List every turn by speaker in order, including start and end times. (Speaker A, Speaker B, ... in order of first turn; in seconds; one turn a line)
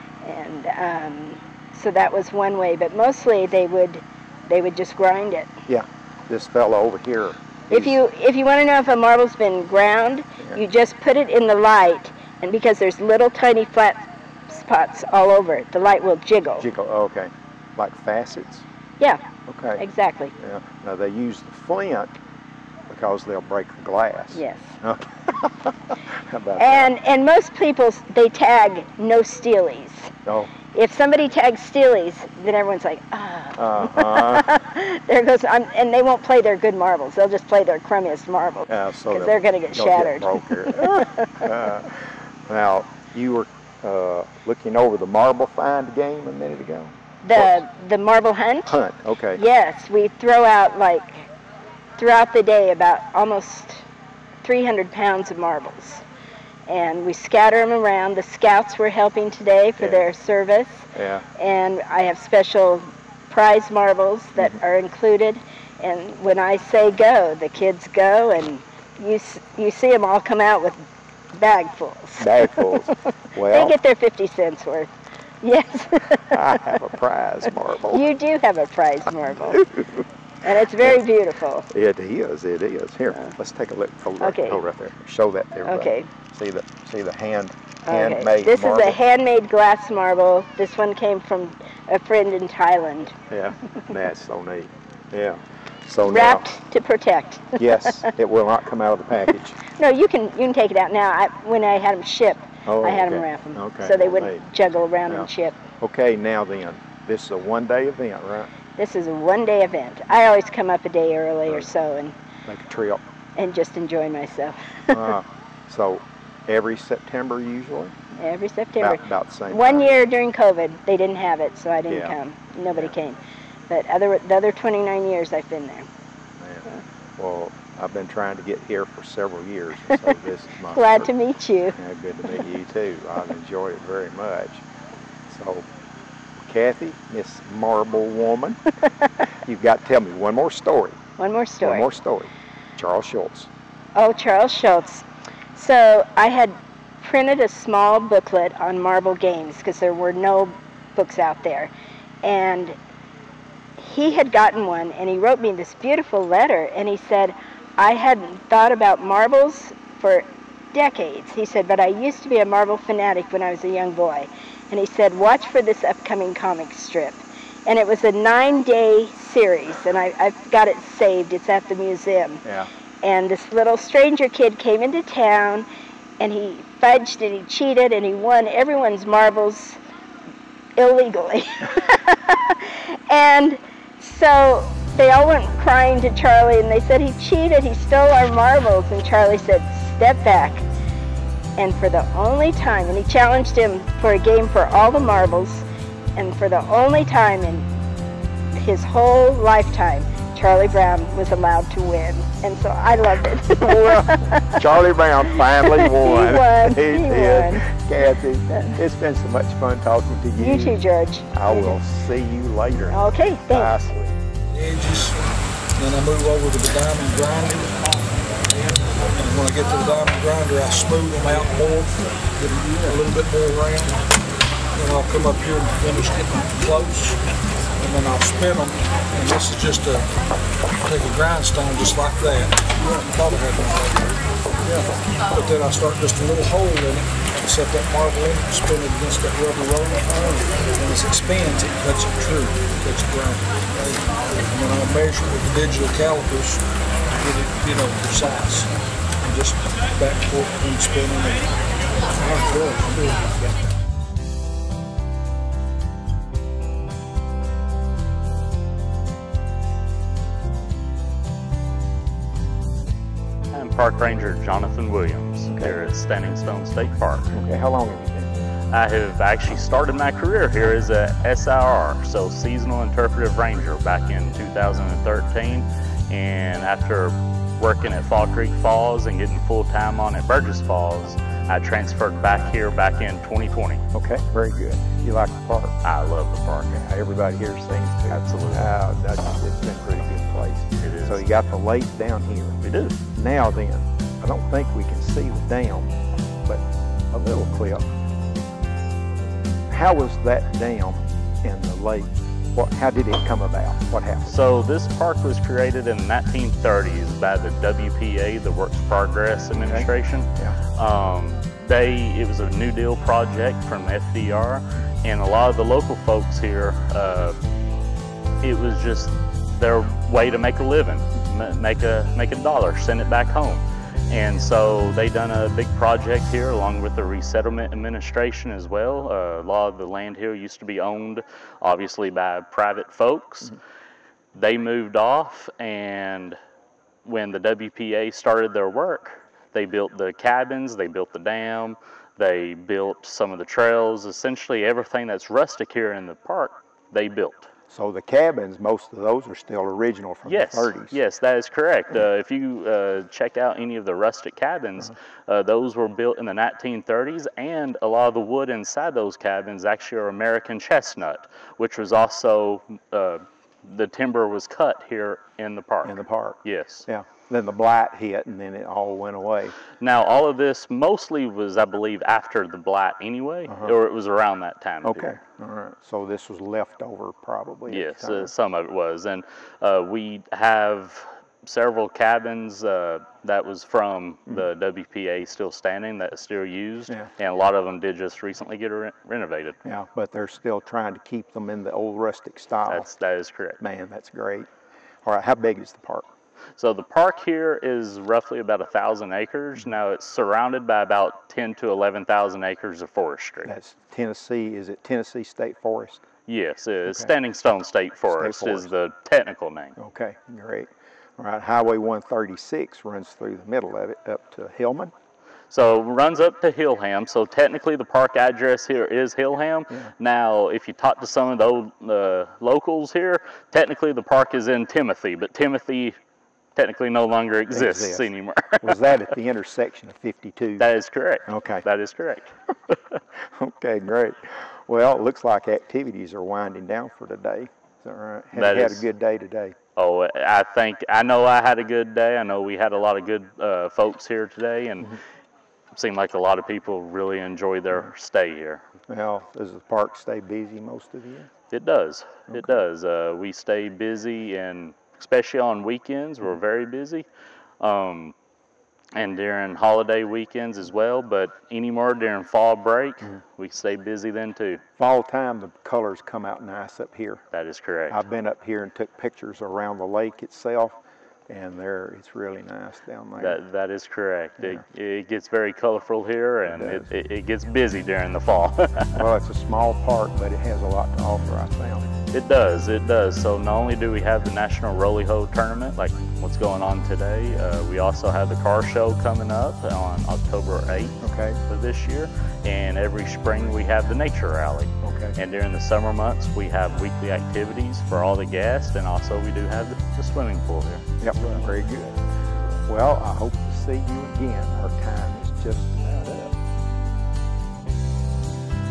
Speaker A: 0.2-5.5
Speaker B: 5.7-8.0
Speaker A: 7.7-16.7
Speaker B: 16.6-18.6
Speaker B: 19.5-19.8
Speaker A: 19.8-20.3
Speaker B: 20.4-22.1
Speaker B: 22.9-26.9
Speaker A: 24.4-24.8
Speaker A: 26.6-30.1
Speaker B: 30.2-30.5
Speaker A: 30.7-41.5
Speaker B: 33.6-34.6
Speaker B: 38.7-47.6
Speaker A: 47.2-48.8
Speaker B: 48.7-49.4
Speaker A: 49.4-51.3
Speaker A: 52.0-53.9
Speaker A: 54.4-56.0
Speaker A: 56.7-60.9
Speaker B: 59.8-60.1
Speaker B: 60.9-61.2
Speaker A: 61.4-72.9
Speaker B: 72.2-73.8
Speaker A: 73.5-74.9
Speaker A: 75.4-76.8
Speaker B: 76.3-78.1
Speaker A: 77.9-79.7
Speaker A: 80.4-81.7
Speaker B: 81.7-89.0
Speaker A: 84.2-84.6
Speaker A: 85.7-86.1
Speaker A: 87.9-93.2
Speaker B: 93.3-96.5
Speaker A: 96.1-98.0
Speaker B: 97.6-99.6
Speaker A: 99.7-105.6
Speaker B: 102.7-104.4
Speaker B: 105.1-108.5
Speaker A: 108.8-112.2
Speaker B: 112.5-113.0
Speaker A: 113.4-115.1
Speaker B: 114.9-117.9
Speaker A: 118.1-125.9
Speaker B: 118.8-120.0
Speaker B: 121.9-122.1
Speaker B: 122.7-123.0
Speaker B: 126.4-131.1
Speaker A: 130.8-131.8
Speaker B: 131.7-134.6
Speaker B: 135.3-135.7
Speaker B: 136.3-138.6
Speaker B: 139.5-141.0
Speaker A: 141.2-141.9
Speaker B: 141.6-143.5
Speaker A: 143.9-145.0
Speaker A: 145.6-151.7
Speaker A: 152.2-152.8
Speaker A: 153.8-172.4
Speaker A: 173.0-175.7
Speaker A: 176.2-179.8
Speaker A: 180.8-190.7
Speaker A: 191.6-195.6
Speaker A: 196.2-197.7
Speaker A: 198.5-204.7
Speaker B: 203.5-214.2
Speaker A: 205.6-207.6
Speaker A: 208.5-208.8
Speaker A: 210.4-211.8
Speaker A: 212.9-213.7
Speaker C: 214.5-215.2
Speaker C: 215.8-224.0
Speaker C: 224.8-227.2
Speaker C: 227.8-230.1
Speaker C: 230.8-248.7
Speaker C: 249.2-251.5
Speaker C: 252.1-253.4
Speaker D: 263.5-267.3
Speaker B: 265.5-265.8
Speaker B: 267.3-268.4
Speaker D: 268.7-283.8
Speaker B: 283.9-285.8
Speaker D: 285.8-286.8
Speaker B: 286.7-295.9
Speaker D: 288.1-288.7
Speaker D: 290.8-291.2
Speaker D: 292.6-292.9
Speaker B: 296.4-297.9
Speaker B: 299.7-304.4
Speaker D: 304.3-317.4
Speaker B: 309.7-310.6
Speaker D: 318.4-333.6
Speaker D: 334.3-336.4
Speaker D: 337.0-347.5
Speaker B: 347.7-351.0
Speaker D: 350.2-366.9
Speaker B: 365.8-369.6
Speaker D: 369.8-375.2
Speaker B: 373.5-373.7
Speaker B: 374.8-378.3
Speaker D: 377.7-389.6
Speaker B: 389.6-392.9
Speaker D: 392.7-393.6
Speaker B: 393.6-394.5
Speaker B: 395.0-396.1
Speaker D: 396.6-403.5
Speaker B: 403.4-406.0
Speaker D: 406.3-409.8
Speaker B: 406.9-407.1
Speaker B: 408.1-408.7
Speaker B: 409.8-414.9
Speaker D: 415.5-426.0
Speaker D: 426.6-428.9
Speaker B: 427.5-428.1
Speaker B: 428.6-430.7
Speaker D: 430.6-432.3
Speaker B: 431.3-431.6
Speaker B: 432.7-439.6
Speaker D: 438.3-438.8
Speaker D: 439.8-445.0
Speaker D: 445.7-448.6
Speaker B: 448.9-451.3
Speaker D: 451.5-457.1
Speaker D: 457.6-458.1
Speaker D: 458.9-464.6
Speaker B: 464.8-467.2
Speaker D: 467.3-468.0
Speaker B: 467.9-470.8
Speaker B: 471.3-473.4
Speaker D: 473.2-479.0
Speaker B: 476.5-476.9
Speaker B: 478.9-481.8
Speaker D: 482.1-500.8
Speaker B: 491.0-491.4
Speaker B: 494.8-495.2
Speaker B: 501.0-506.3